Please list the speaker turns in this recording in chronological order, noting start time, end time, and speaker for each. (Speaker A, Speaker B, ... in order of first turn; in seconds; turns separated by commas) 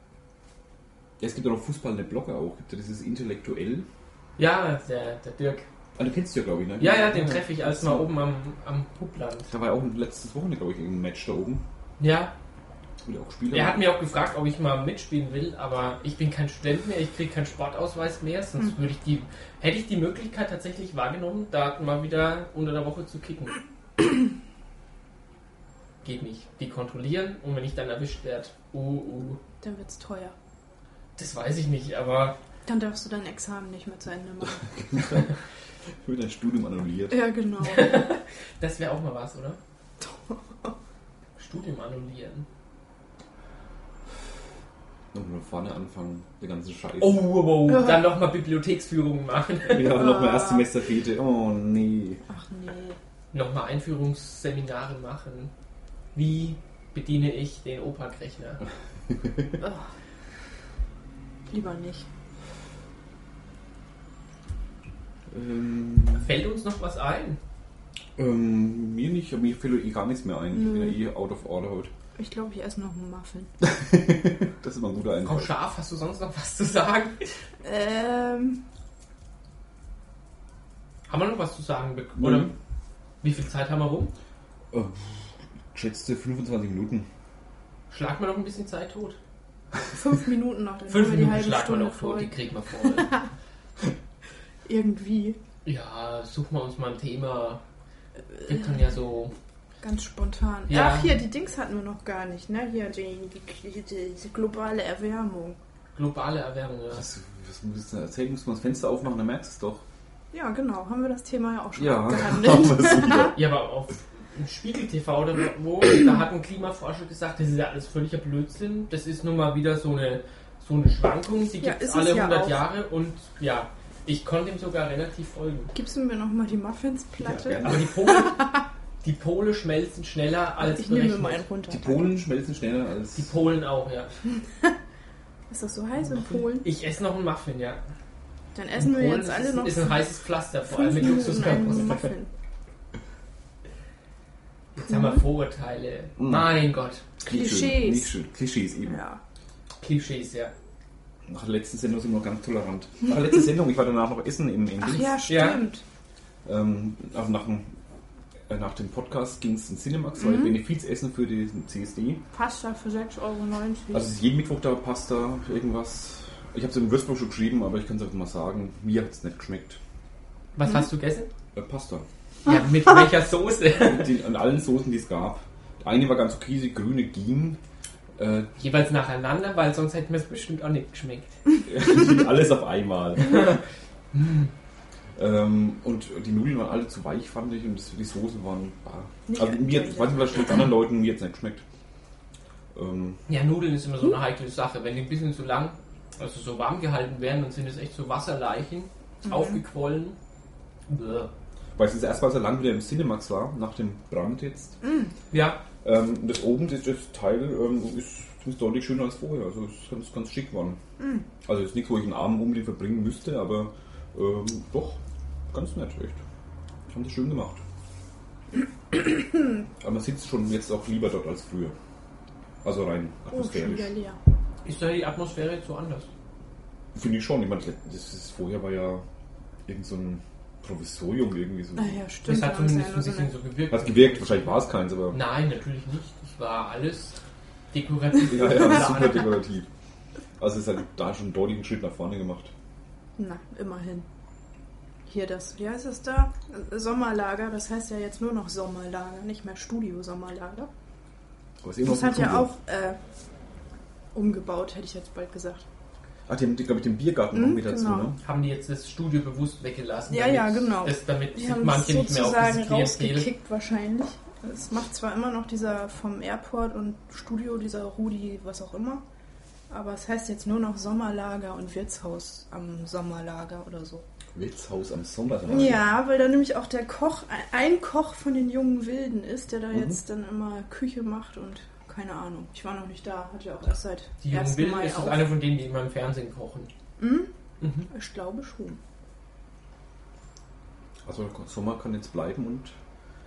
Speaker A: 1.2-3.9, Speaker B: 4.4-5.7, Speaker A: 6.0-8.1, Speaker B: 6.8-9.5, Speaker A: 9.5-11.6, Speaker B: 12.0-12.3, Speaker A: 13.1-13.8, Speaker B: 13.5-23.6, Speaker B: 26.0-29.4, Speaker C: 29.6-30.4, Speaker B: 31.2-32.4, Speaker C: 32.7-34.7, Speaker A: 34.7-35.4, Speaker A: 36.0-37.2, Speaker C: 37.1-38.0, Speaker B: 37.6-39.6, Speaker C: 40.0-40.7, Speaker B: 41.4-42.5, Speaker A: 45.1-47.2, Speaker B: 47.0-50.0, Speaker C: 47.7-48.1, Speaker A: 49.7-52.2, Speaker C: 49.8-50.7, Speaker C: 52.3-53.0, Speaker B: 53.3-55.5, Speaker B: 56.1-58.6, Speaker C: 59.6-59.9, Speaker C: 61.5-62.1, Speaker A: 65.3-66.3, Speaker B: 66.2-67.4, Speaker A: 68.2-71.9, Speaker C: 70.5-71.0, Speaker C: 72.2-73.5, Speaker A: 73.6-75.5, Speaker B: 75.2-77.3, Speaker C: 77.6-78.6, Speaker B: 81.1-82.5, Speaker A: 82.2-82.5, Speaker B: 83.2-84.1, Speaker A: 84.7-87.1, Speaker B: 87.9-89.2, Speaker C: 89.9-92.4, Speaker B: 90.9-93.2, Speaker C: 94.7-95.4, Speaker B: 95.7-97.6, Speaker B: 98.4-99.3, Speaker C: 99.8-105.6, Speaker B: 100.7-101.2, Speaker B: 106.0-107.1, Speaker A: 106.9-109.8, Speaker C: 110.3-113.4, Speaker A: 111.8-113.4, Speaker B: 113.3-125.7, Speaker C: 121.6-122.6, Speaker C: 125.7-128.6, Speaker A: 127.2-128.0, Speaker B: 127.6-128.5, Speaker B: 129.0-131.4, Speaker C: 130.6-132.2, Speaker A: 131.7-133.3, Speaker B: 133.2-134.1, Speaker C: 135.5-136.7, Speaker B: 136.0-137.8, Speaker C: 138.6-140.1, Speaker B: 138.8-142.1, Speaker C: 140.7-142.3, Speaker B: 144.8-147.1, Speaker C: 144.9-145.2, Speaker A: 146.2-146.5, Speaker A: 147.2-149.0, Speaker C: 147.2-148.1, Speaker C: 148.9-149.2, Speaker B: 149.8-150.5, Speaker A: 151.3-155.2, Speaker C: 154.8-155.8, Speaker B: 155.3-155.6, Speaker A: 156.4-157.7, Speaker A: 158.5-162.2, Speaker C: 162.3-164.1, Speaker A: 163.9-169.8, Speaker B: 170.6-171.3, Speaker A: 171.6-172.1, Speaker B: 172.5-174.1, Speaker A: 173.8-177.6, Speaker A: 178.2-178.5, Speaker B: 178.6-181.3, Speaker A: 181.7-183.6, Speaker B: 183.2-183.6, Speaker B: 184.1-184.5, Speaker A: 185.2-191.6, Speaker C: 189.3-190.6, Speaker A: 192.7-193.2, Speaker B: 193.3-200.2, Speaker B: 200.9-201.3, Speaker A: 201.8-204.8, Speaker C: 204.8-205.1, Speaker B: 205.3-205.6, Speaker A: 205.8-210.8, Speaker C: 211.0-211.3, Speaker A: 211.4-215.0, Speaker A: 215.5-216.2, Speaker A: 216.9-217.6, Speaker A: 219.8-221.8, Speaker A: 222.6-223.9, Speaker C: 223.3-224.2, Speaker B: 224.7-226.1, Speaker A: 226.9-229.0, Speaker A: 229.7-232.0, Speaker C: 231.8-233.3, Speaker B: 232.2-237.2, Speaker A: 233.7-235.2, Speaker B: 237.7-239.3, Speaker A: 238.3-239.7, Speaker A: 240.4-242.5, Speaker C: 243.2-244.1, Speaker C: 245.1-250.7, Speaker A: 251.6-252.5, Speaker C: 251.8-253.0, Speaker C: 254.1-255.7, Speaker A: 256.3-258.2, Speaker C: 257.3-258.1, Speaker B: 258.2-263.3, Speaker C: 260.1-269.0, Speaker C: 269.7-274.1, Speaker A: 274.4-275.9, Speaker C: 275.5-285.3, Speaker A: 279.7-280.0, Speaker B: 284.2-286.7, Speaker C: 287.0-287.3, Speaker B: 287.6-287.9, Speaker C: 287.9-288.8, Speaker A: 291.1-292.8